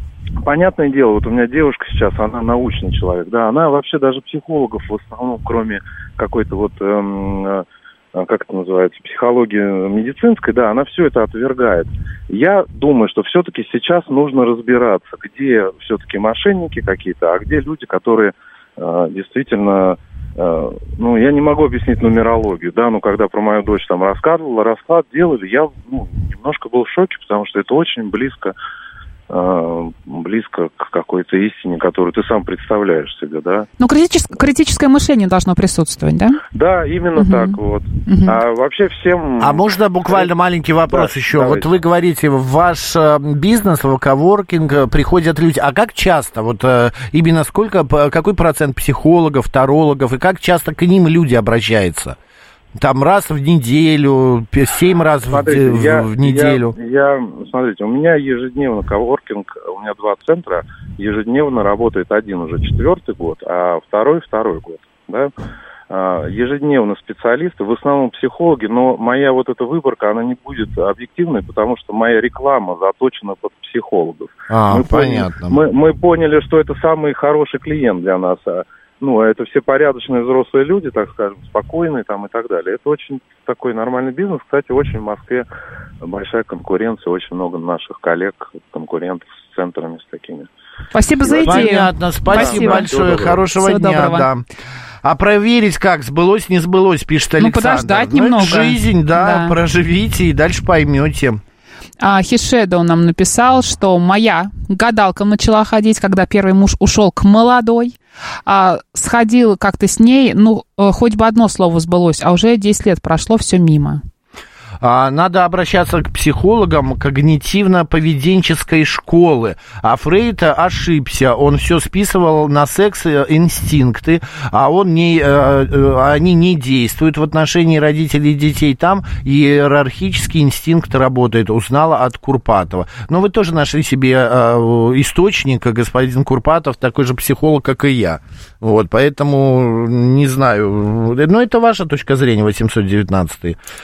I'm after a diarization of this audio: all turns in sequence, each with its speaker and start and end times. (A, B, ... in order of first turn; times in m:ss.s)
0:00.4-0:28.6 A
0:29.3-0:33.7 A
0:33.8-0:36.4 B
0:36.5-0:40.3 A
0:37.2-0:38.4 B
0:39.4-0:52.2 C
0:40.9-0:41.7 A
0:52.8-0:56.8 C
0:55.3-1:05.3 A
1:05.9-1:25.5 A
1:14.5-1:15.6 C
1:26.0-1:30.5 A
1:30.9-1:32.9 B
1:31.2-1:33.5 A
1:31.4-1:34.4 C
1:33.5-1:34.3 B
1:35.0-1:41.4 C
1:37.4-1:39.6 B
1:42.0-1:54.0 B
1:54.8-2:23.6 C